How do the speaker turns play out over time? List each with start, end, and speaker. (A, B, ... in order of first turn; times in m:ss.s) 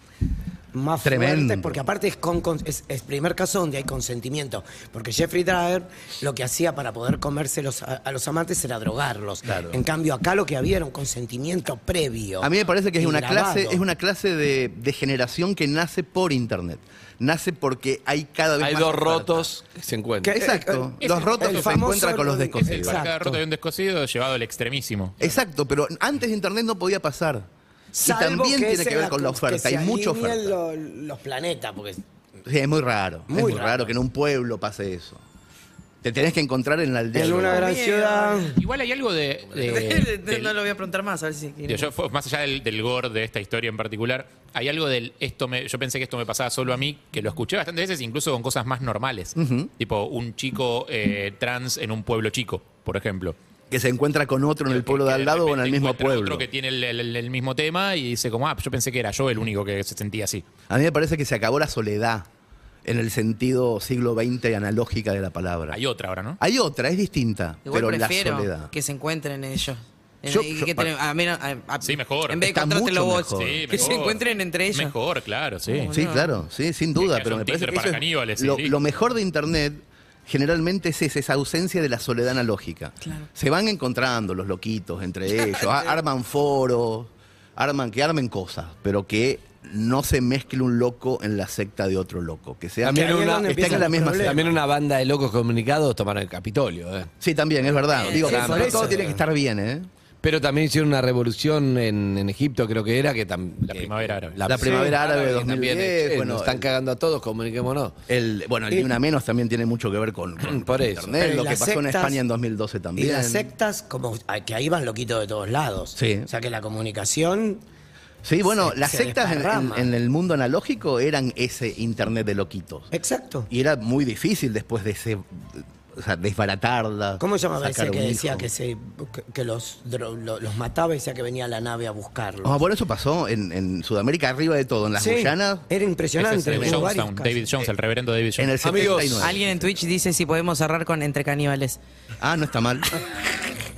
0:00.7-0:13.8 A
0:01.0-0:01.8 B
0:09.4-0:09.8 B
0:12.4-0:19.5 B
0:18.6-0:20.4 C
0:20.2-0:23.4 A
0:20.3-0:23.1 B
0:21.0-0:22.0 D
0:22.6-0:25.2 D
0:25.2-0:27.5 B
0:27.9-0:32.0 A
0:28.0-0:30.6 B
0:32.4-0:35.2 B
0:33.3-0:33.9 A
0:36.0-0:37.7 B
0:37.1-0:38.6 A
0:37.5-0:38.6 E
0:38.6-0:40.6 D
0:39.6-0:41.9 E
0:41.7-0:53.4 D
0:49.4-0:49.7 B
0:53.7-0:56.5 B
0:54.7-1:00.4 D
1:00.7-1:02.2 B
1:02.8-1:05.8 B
1:05.7-1:06.4 D
1:06.4-1:08.7 B
1:07.6-1:15.0 E
1:10.2-1:10.9 B
1:11.8-1:12.4 D
1:12.4-1:13.8 B
1:13.3-1:15.9 D
1:15.7-1:16.3 E
1:15.9-1:34.5 B
1:17.0-1:18.8 D
1:32.8-1:37.1 C
1:32.8-1:34.4 A
1:37.2-1:39.9 B
1:37.9-1:38.7 E
1:38.1-1:39.0 C
1:38.2-1:39.2 A
1:40.2-1:48.0 C
1:43.7-1:44.4 D
1:44.4-1:46.6 B
1:44.5-1:45.0 A
1:48.1-1:53.5 B
1:50.4-1:51.2 C
1:51.2-1:52.2 A
1:53.0-1:57.6 A
1:56.0-1:56.3 B
1:58.2-2:02.9 B
1:58.5-1:59.9 A
2:02.9-2:03.5 A
2:03.5-2:08.5 B
2:07.2-2:12.6 A
2:12.4-2:15.7 B
2:15.0-2:17.4 A
2:16.2-2:18.5 D
2:16.5-2:17.0 B
2:18.4-2:19.5 B
2:18.6-2:19.3 C
2:19.2-2:21.8 E
2:22.2-2:23.0 B